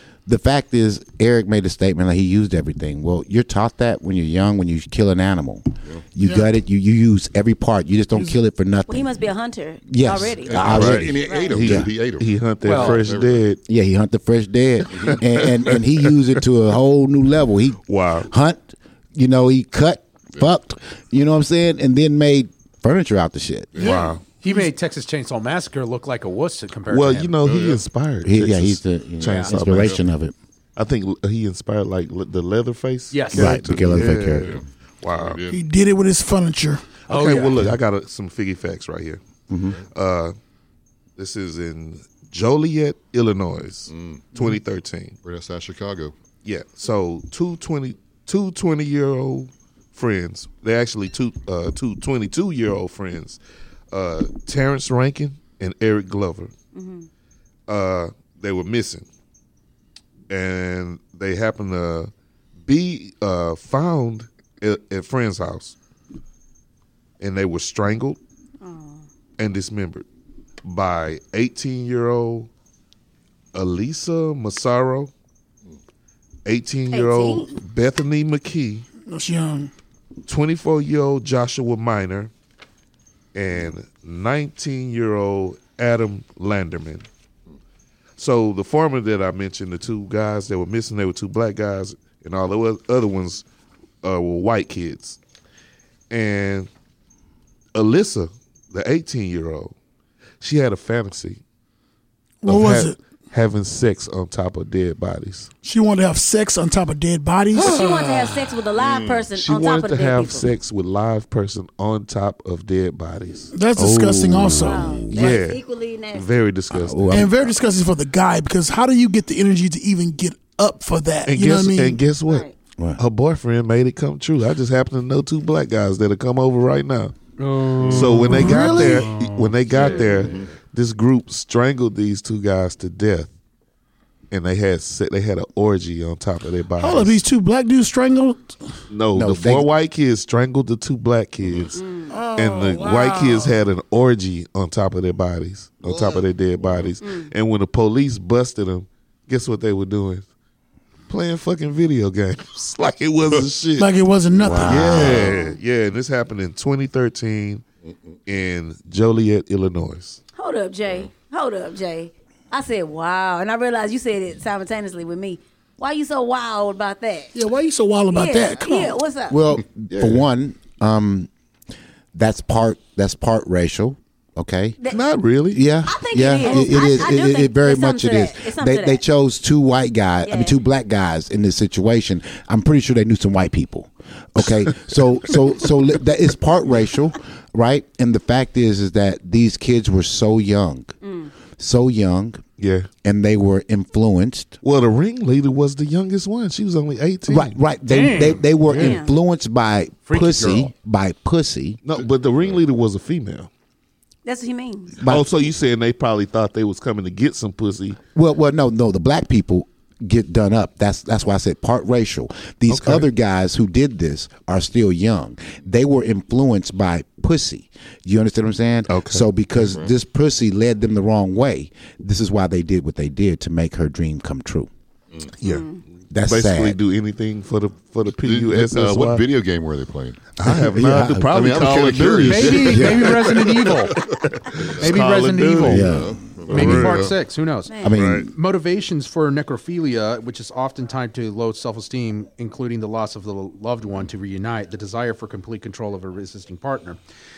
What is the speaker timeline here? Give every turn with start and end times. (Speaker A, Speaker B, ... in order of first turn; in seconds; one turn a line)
Speaker A: 0.3-5.6
Speaker A: 6.2-9.1
Speaker B: 8.9-11.6
Speaker A: 9.9-11.9
Speaker C: 10.4-13.5
Speaker D: 10.5-13.6
Speaker E: 12.6-13.0
Speaker A: 13.7-23.8
Speaker C: 14.9-15.2
Speaker D: 15.0-16.2
Speaker D: 17.9-18.3
Speaker C: 23.8-24.0
Speaker D: 23.8-24.2
Speaker F: 23.8-24.7
Speaker E: 24.4-27.3
Speaker D: 26.9-30.0
Speaker C: 27.4-27.8
Speaker A: 28.2-30.3
Speaker C: 29.6-30.0
Speaker D: 30.8-35.4
Speaker E: 33.1-33.6
Speaker A: 33.3-34.5
Speaker C: 34.0-35.6
Speaker F: 35.5-36.9
Speaker E: 37.1-37.6
Speaker D: 37.1-39.2
Speaker A: 39.5-39.8
Speaker D: 39.9-40.3
Speaker D: 41.2-45.2
Speaker C: 43.9-44.6
Speaker C: 45.2-46.1
Speaker D: 46.4-53.4
Speaker D: 53.9-56.5
Speaker B: 56.7-57.1
Speaker D: 57.7-59.1
Speaker D: 60.3-62.1
Speaker D: 62.7-65.8
Speaker D: 67.2-68.2
Speaker B: 68.6-69.1
Speaker D: 69.4-70.0
Speaker D: 70.6-72.5
Speaker D: 73.5-75.1
Speaker D: 76.5-78.9
Speaker B: 76.9-77.6
Speaker F: 79.1-79.7
Speaker D: 80.3-82.3
Speaker D: 83.3-87.1
Speaker D: 88.2-93.4
Speaker D: 94.0-95.2
Speaker D: 96.1-96.7
Speaker D: 97.8-99.8
Speaker D: 100.4-101.4
Speaker F: 102.4-103.0
Speaker D: 102.5-105.5
Speaker F: 105.6-107.9
Speaker D: 107.5-108.6
Speaker B: 107.6-110.5
Speaker C: 108.8-109.2
Speaker D: 109.3-113.5
Speaker F: 113.5-115.0
Speaker A: 113.8-115.4
Speaker D: 114.4-115.6
Speaker B: 114.6-116.2
Speaker D: 116.1-117.4
Speaker A: 116.7-117.4
Speaker F: 117.1-122.1
Speaker D: 121.3-122.5
Speaker B: 122.3-122.5
Speaker D: 123.0-127.1
Speaker E: 127.4-128.6
Speaker C: 127.8-128.3
Speaker D: 127.9-133.3
Speaker F: 127.9-129.4
Speaker C: 129.7-130.5
Speaker B: 129.8-130.2
Speaker D: 134.3-137.2
Speaker F: 136.8-138.6
Speaker D: 138.9-141.8
Speaker A: 139.1-139.7
Speaker C: 141.4-141.8
Speaker B: 141.8-142.1
Speaker F: 142.1-143.6
Speaker D: 142.3-150.3
Speaker C: 145.8-146.9
Speaker B: 147.0-147.3
Speaker D: 151.1-153.9
Speaker F: 153.8-155.2
Speaker A: 154.4-155.3
Speaker D: 154.6-157.6
Speaker C: 154.6-155.5
Speaker B: 155.3-155.6
Speaker C: 157.9-158.2
Speaker D: 158.3-160.2
Speaker B: 160.4-167.3
Speaker C: 160.8-161.1
Speaker F: 167.3-169.0
Speaker B: 168.1-169.4
Speaker A: 169.3-171.3
Speaker D: 169.9-170.3
Speaker A: 172.1-174.8
Speaker D: 174.9-175.6
Speaker A: 175.5-190.9
Speaker B: 175.8-179.0
Speaker B: 180.2-180.6
Speaker B: 191.0-191.3
Speaker A: 191.6-192.4
Speaker D: 192.6-192.9
Speaker A: 193.0-194.6
Speaker D: 194.6-197.6
Speaker A: 197.3-201.8
Speaker E: 197.9-198.7
Speaker D: 198.7-198.9
Speaker B: 198.7-199.1
Speaker E: 200.1-200.7
Speaker D: 201.8-203.5
Speaker C: 201.9-202.6
Speaker B: 204.2-205.0
Speaker A: 205.0-205.3
Speaker D: 205.1-208.0
Speaker A: 208.2-224.7
Speaker D: 212.7-213.1
Speaker D: 218.9-219.2
Speaker C: 219.6-219.9
Speaker D: 225.4-225.7
Speaker B: 225.4-225.8
Speaker A: 226.1-226.8
Speaker D: 226.2-229.2
Speaker C: 228.2-230.3
Speaker D: 230.4-233.3
Speaker A: 230.4-231.5
Speaker C: 231.3-235.0
Speaker E: 232.2-233.9
Speaker A: 232.7-233.1
Speaker D: 233.9-237.1
Speaker E: 234.8-235.9
Speaker A: 235.6-236.7
Speaker C: 235.7-237.2
Speaker E: 236.5-237.7
Speaker A: 237.8-238.3
Speaker D: 237.9-238.3
Speaker E: 238.3-247.0